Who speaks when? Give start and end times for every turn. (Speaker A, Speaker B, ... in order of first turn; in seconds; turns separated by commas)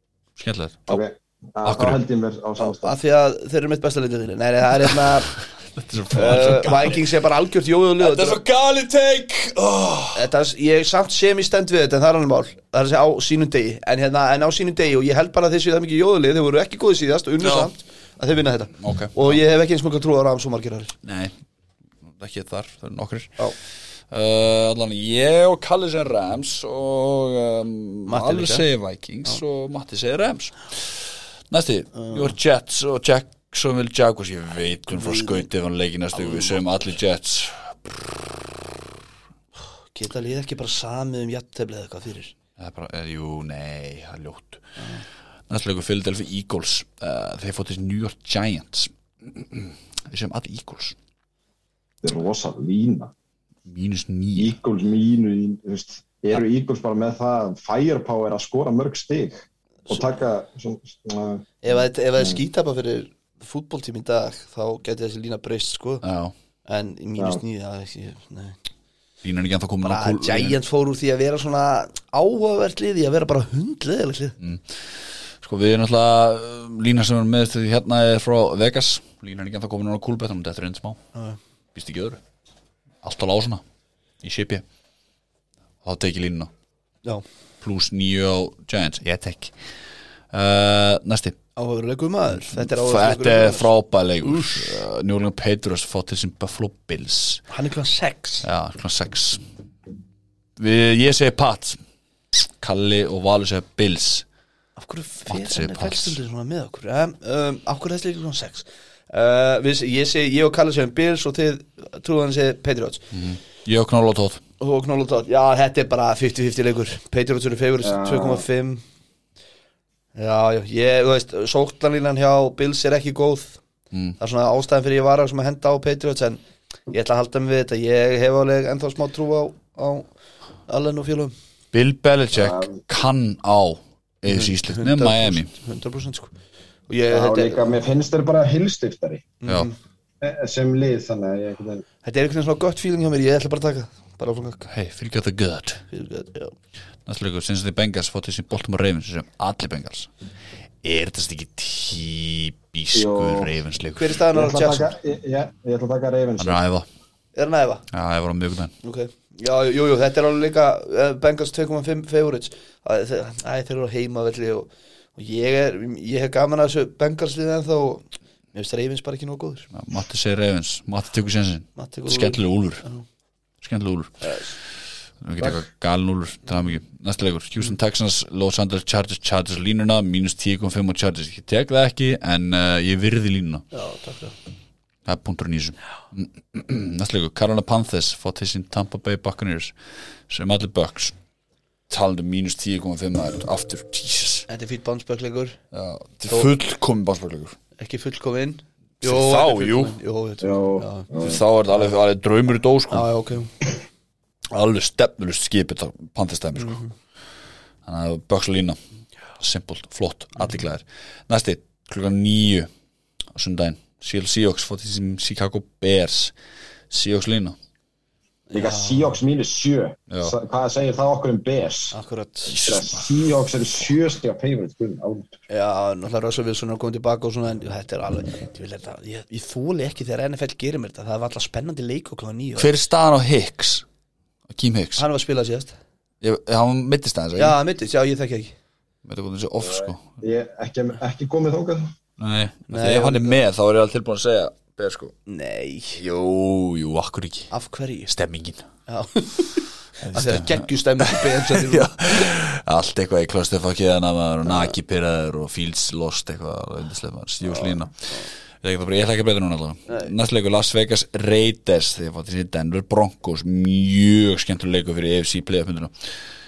Speaker A: 0.4-1.0, Speaker B: 0.9-3.0, Speaker A: 1.6-2.0, Speaker C: 2.6-5.3, Speaker A: 5.7-7.0, Speaker C: 6.1-8.4, Speaker A: 8.0-10.2, Speaker C: 10.1-20.9, Speaker A: 17.4-17.7, Speaker A: 18.8-19.4, Speaker A: 21.0-21.3, Speaker A: 22.1-23.4, Speaker A: 24.1-38.5, Speaker C: 28.1-28.6, Speaker C: 32.0-32.3, Speaker C: 34.9-35.5, Speaker C: 36.1-36.6, Speaker C: 39.9-42.3, Speaker A: 42.6-44.6, Speaker C: 44.8-45.0, Speaker A: 45.5-51.0, Speaker B: 52.0-53.1, Speaker A: 53.6-54.5, Speaker B: 54.4-61.5, Speaker C: 61.6-66.0, Speaker A: 66.0-66.3, Speaker C: 66.7-68.6, Speaker A: 69.2-70.6, Speaker C: 69.8-74.3, Speaker A: 75.4-81.0, Speaker A: 81.7-82.2, Speaker A: 83.0-83.6, Speaker A: 84.2-84.6, Speaker A: 85.8-86.5, Speaker A: 87.6-89.5, Speaker A: 90.3-91.3, Speaker C: 91.5-93.7, Speaker A: 92.4-97.4, Speaker C: 94.2-94.8, Speaker C: 97.5-98.5, Speaker A: 98.4-99.4, Speaker A: 100.6-101.8, Speaker A: 102.6-104.2, Speaker C: 104.8-113.0, Speaker A: 105.3-106.2, Speaker A: 113.1-114.4, Speaker C: 114.6-118.8, Speaker B: 117.8-118.5, Speaker C: 120.1-123.6, Speaker C: 124.2-130.1, Speaker C: 130.7-131.3, Speaker A: 131.7-135.5, Speaker B: 132.3-132.7, Speaker C: 134.3-136.3, Speaker C: 136.9-137.7, Speaker B: 137.1-139.3, Speaker C: 139.4-139.7, Speaker B: 140.2-141.8, Speaker C: 142.0-144.7, Speaker A: 144.7-145.8, Speaker C: 145.9-146.5, Speaker A: 147.1-150.1, Speaker A: 150.8-154.2, Speaker B: 152.9-153.5, Speaker C: 153.9-154.9, Speaker B: 154.3-156.6, Speaker A: 156.4-156.8, Speaker C: 157.3-157.8, Speaker A: 157.9-158.7, Speaker C: 158.8-169.7, Speaker A: 169.7-172.8, Speaker C: 171.8-173.0, Speaker A: 173.6-174.3, Speaker C: 174.2-174.5, Speaker A: 175.2-183.7, Speaker C: 183.7-184.3, Speaker A: 185.1-189.7, Speaker A: 190.3-191.1, Speaker A: 191.9-194.5, Speaker C: 194.5-195.6, Speaker A: 195.7-197.6, Speaker C: 196.3-196.5, Speaker C: 197.8-201.1, Speaker A: 199.0-199.9, Speaker B: 200.4-201.4, Speaker A: 201.2-203.1, Speaker C: 202.9-203.5, Speaker A: 204.5-206.8, Speaker C: 206.6-206.9, Speaker A: 207.8-208.8, Speaker A: 209.4-212.7, Speaker A: 213.3-216.3, Speaker A: 216.9-217.6, Speaker C: 218.5-219.2, Speaker B: 218.5-221.9, Speaker C: 221.9-222.6, Speaker A: 222.5-223.1, Speaker B: 222.6-225.3, Speaker C: 225.5-232.7, Speaker A: 232.6-233.8, Speaker A: 234.5-235.1, Speaker C: 235.0-235.7, Speaker A: 236.2-237.6, Speaker C: 237.3-238.5, Speaker A: 239.0-240.0, Speaker B: 240.2-241.9, Speaker A: 242.2-245.1, Speaker C: 242.7-243.4, Speaker C: 245.3-246.0, Speaker A: 245.9-247.5, Speaker C: 247.5-248.1, Speaker A: 248.1-248.6, Speaker C: 248.9-252.3, Speaker A: 250.0-265.9, Speaker C: 254.4-254.7, Speaker C: 257.4-258.2